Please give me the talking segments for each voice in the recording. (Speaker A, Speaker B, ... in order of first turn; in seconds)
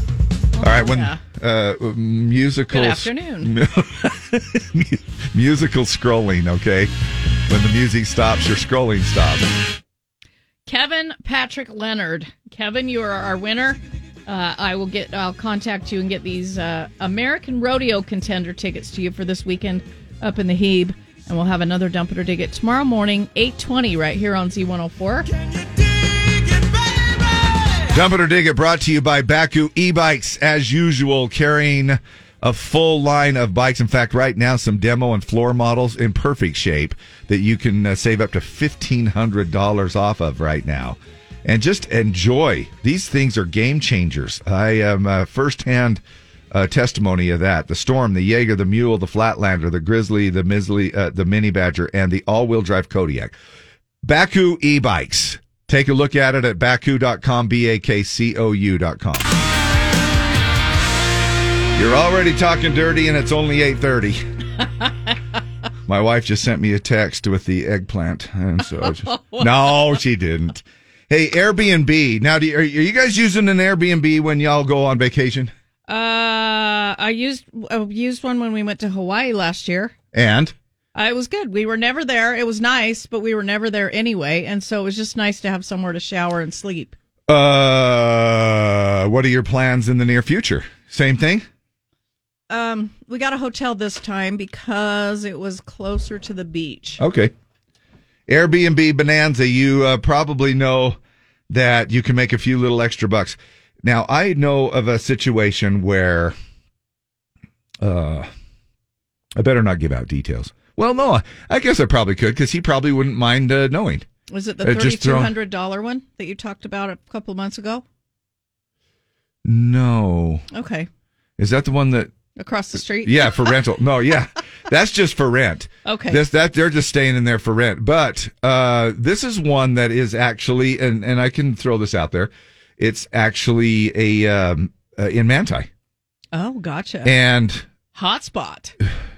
Speaker A: 0.6-1.2, 2.7-3.5, 10.7-25.3, 68.8-69.8, 75.9-79.9, 80.9-86.9, 92.5-97.0, 114.3-117.8, 120.5-120.9, 122.4-123.5, 125.8-126.2, 136.3-137.1, 137.9-138.7
Speaker B: 0.6-6.9, 7.5-9.5, 27.9-46.0, 46.5-53.4, 54.0-59.3, 61.7-64.2, 65.9-75.5, 80.1-80.5, 87.3-91.5, 97.0-97.3, 98.3-101.0, 101.5-106.4, 107.8-108.3, 109.4-114.1, 114.6-115.3, 119.4-120.4, 121.4-122.1, 123.0-135.7, 137.1-137.7